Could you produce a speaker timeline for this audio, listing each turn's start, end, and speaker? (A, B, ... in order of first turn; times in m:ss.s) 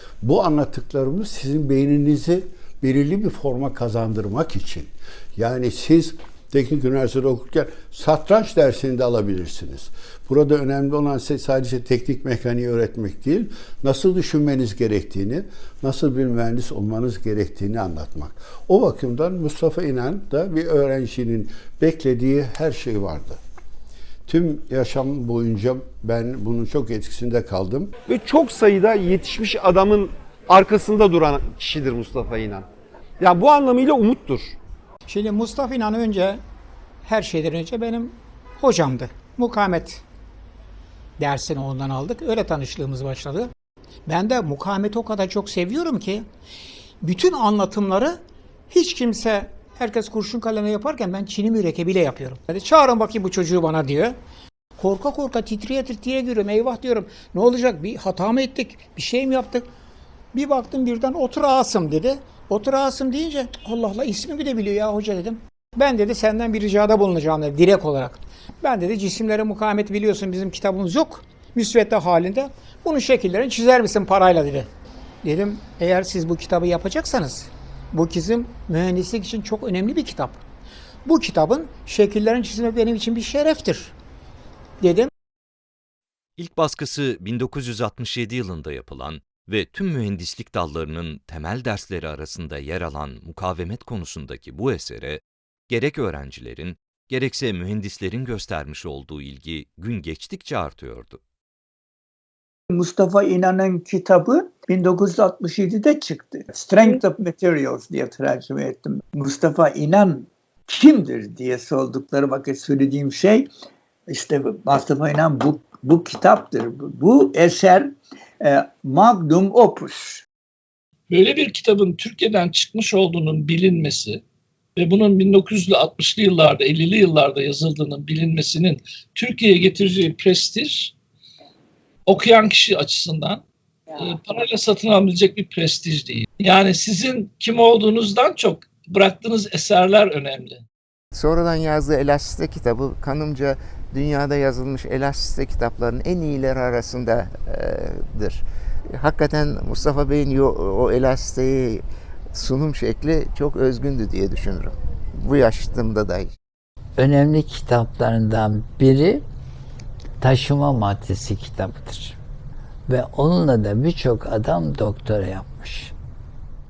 0:00.2-0:23.4 A
0:24.3-0:27.9 A
0:28.1-0:32.6 B
0:33.2-0:34.5 B
0:35.1-0:36.4 C
0:37.0-0:40.0 C
0:41.2-0:43.5 C
0:44.0-0:46.3 C
0:47.0-0:54.2 C
0:54.8-0:59.7 C
1:00.3-1:14.7 C
1:15.2-1:20.4 C
1:21.0-1:23.9 C
1:24.8-1:25.1 C
1:26.4-1:41.2 D
1:26.5-1:35.2 E
1:35.7-1:41.1 E
1:42.7-1:53.5 F
1:54.1-2:00.2 F
2:01.1-2:04.2 E
2:04.8-2:10.9 E
2:12.1-2:13.4 E
2:14.0-2:20.6 E
2:21.2-2:28.4 G
2:29.0-2:31.8 G
2:32.3-2:36.3 G
2:37.0-2:39.2 H
2:40.2-2:42.2 H
2:42.9-2:45.9 H